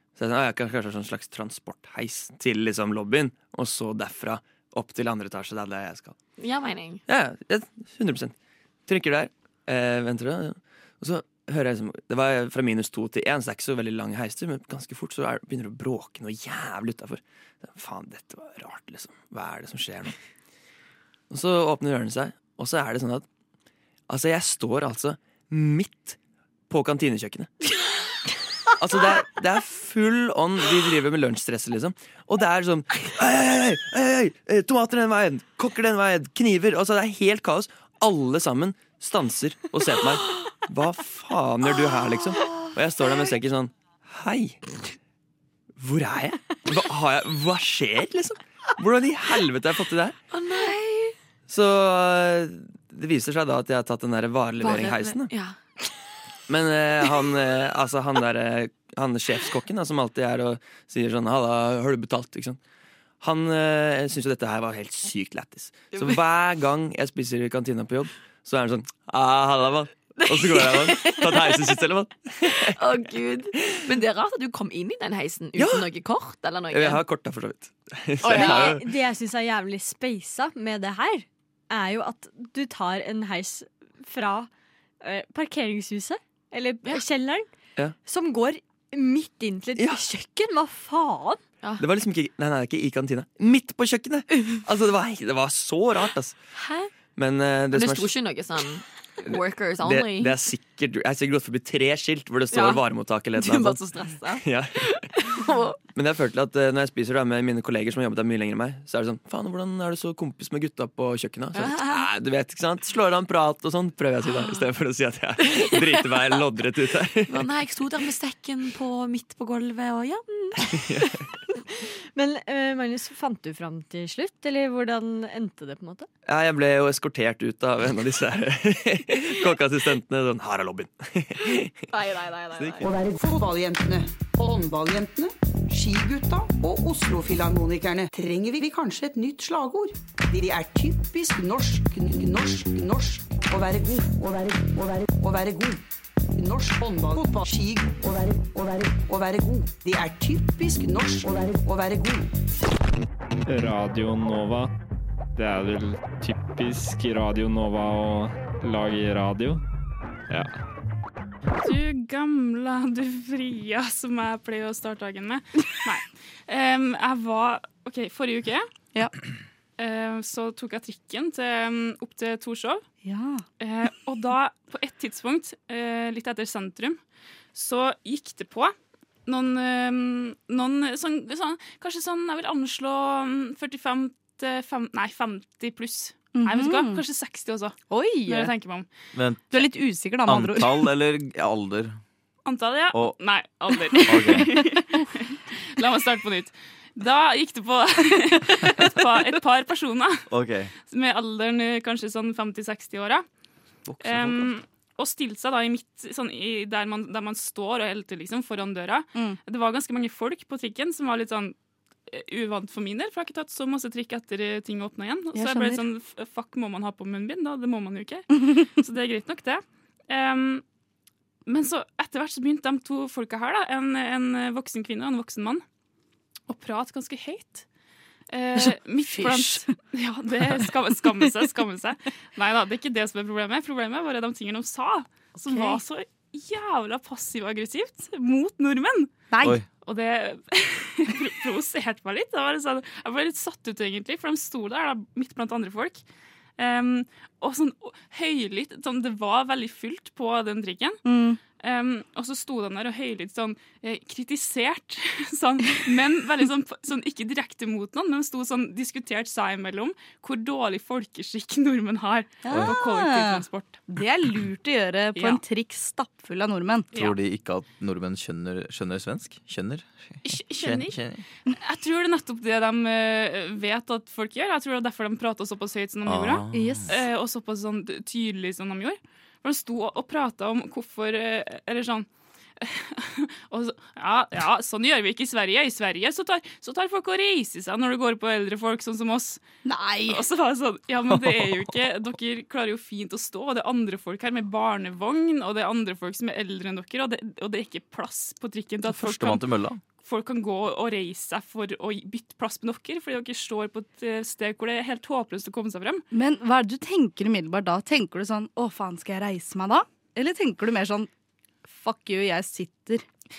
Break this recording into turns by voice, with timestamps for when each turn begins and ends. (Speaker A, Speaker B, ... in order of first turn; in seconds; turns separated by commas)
Speaker A: 0.2-6.2, Speaker B: 6.4-7.0, Speaker A: 7.1-8.3, Speaker A: 8.9-20.2, Speaker A: 21.3-23.3, Speaker A: 24.1-26.2, Speaker A: 26.7-27.5, Speaker A: 28.8-44.6, Speaker A: 45.8-50.2, Speaker B: 50.3-51.2, Speaker A: 51.5-55.3, Speaker B: 54.6-55.6, Speaker A: 56.5-62.6, Speaker A: 63.2-72.6, Speaker B: 65.9-66.2, Speaker B: 70.2-71.6, Speaker B: 72.5-77.0, Speaker A: 75.6-75.9, Speaker A: 76.7-78.8, Speaker C: 78.2-84.5, Speaker B: 78.2-78.8, Speaker C: 85.0-87.5, Speaker C: 88.0-91.4, Speaker A: 89.8-90.0, Speaker A: 91.8-96.4, Speaker B: 96.6-96.9, Speaker A: 97.1-98.2, Speaker B: 97.7-100.3, Speaker A: 99.3-104.8, Speaker B: 102.5-102.8, Speaker B: 103.3-105.8, Speaker A: 105.9-117.4, Speaker B: 111.5-112.1, Speaker B: 115.5-116.1, Speaker B: 117.3-120.6, Speaker C: 122.1-126.1, Speaker A: 126.3-131.9, Speaker A: 132.6-132.9, Speaker D: 140.8-142.9, Speaker D: 147.1-147.4, Speaker D: 149.9-151.2, Speaker D: 151.9-152.2, Speaker E: 153.5-154.7, Speaker E: 155.4-159.6, Speaker F: 161.6-168.7, Speaker F: 169.8-172.8, Speaker G: 173.0-173.4, Speaker F: 173.6-177.0, Speaker F: 177.5-178.7, Speaker F: 179.3-187.8, Speaker G: 186.3-187.0, Speaker G: 187.9-188.5, Speaker F: 188.3-188.9, Speaker H: 189.1-189.6, Speaker G: 189.5-190.9, Speaker H: 190.2-192.0, Speaker F: 192.4-200.3, Speaker G: 193.9-194.8, Speaker H: 194.1-194.4, Speaker H: 200.3-200.7, Speaker F: 200.9-203.2, Speaker A: 203.9-204.5, Speaker F: 204.0-211.6, Speaker F: 212.1-218.2, Speaker G: 215.3-215.9, Speaker G: 218.3-218.7, Speaker F: 218.8-220.6, Speaker F: 221.5-225.6, Speaker F: 226.5-227.7, Speaker F: 228.3-239.1, Speaker G: 228.6-229.8, Speaker G: 235.4-235.8, Speaker G: 239.3-239.6, Speaker H: 239.4-239.7, Speaker F: 239.8-246.0, Speaker F: 246.6-251.0, Speaker G: 251.1-251.4, Speaker F: 251.6-263.8, Speaker G: 262.4-266.9, Speaker H: 262.5-262.8, Speaker F: 265.2-265.4, Speaker H: 266.9-271.2, Speaker F: 270.2-271.0, Speaker F: 271.6-282.1, Speaker H: 276.0-276.8, Speaker G: 276.5-277.0, Speaker F: 282.6-289.4, Speaker G: 289.6-290.3, Speaker F: 290.1-306.0, Speaker H: 291.1-291.8, Speaker H: 298.9-299.8, Speaker G: 306.1-311.1, Speaker G: 311.7-313.1